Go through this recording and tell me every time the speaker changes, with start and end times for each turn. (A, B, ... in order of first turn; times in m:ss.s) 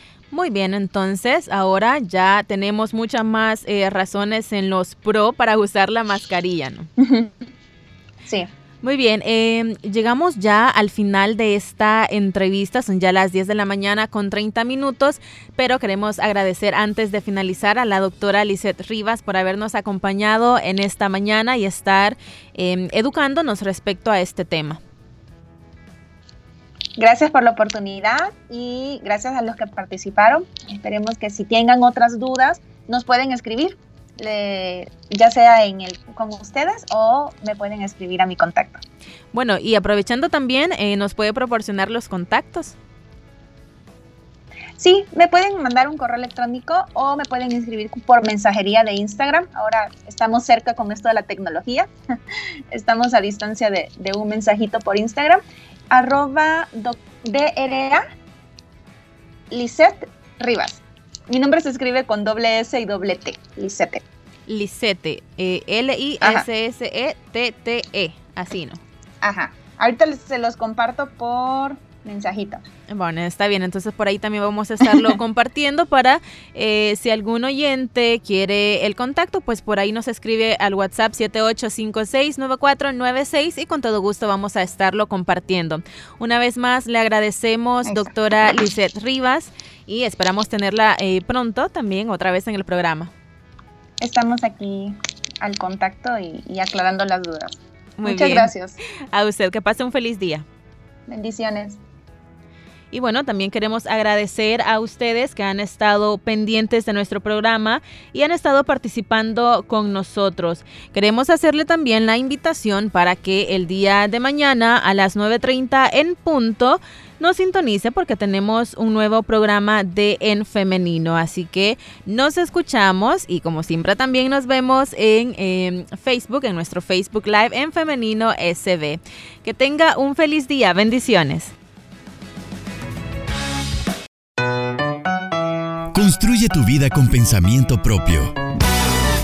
0:00.3-0:06.9 A
0:07.0-0:07.3 B
0:08.2-0:08.5 B
0:08.8-0:24.8 A
0:27.0-0:38.8 B
0:39.3-0:42.8 A
0:44.8-0:51.9 B
0:52.7-0:58.0 B
0:59.5-1:04.0 B
1:04.5-1:08.8 A
1:09.2-1:12.6 B
1:12.9-1:33.1 A
1:14.8-1:15.2 B
1:27.8-1:28.1 B
1:34.0-1:38.8 B
1:38.0-1:38.5 A
1:39.1-1:40.4 A
1:41.1-1:41.8 B
1:42.9-2:11.5 A
2:15.9-2:18.4 C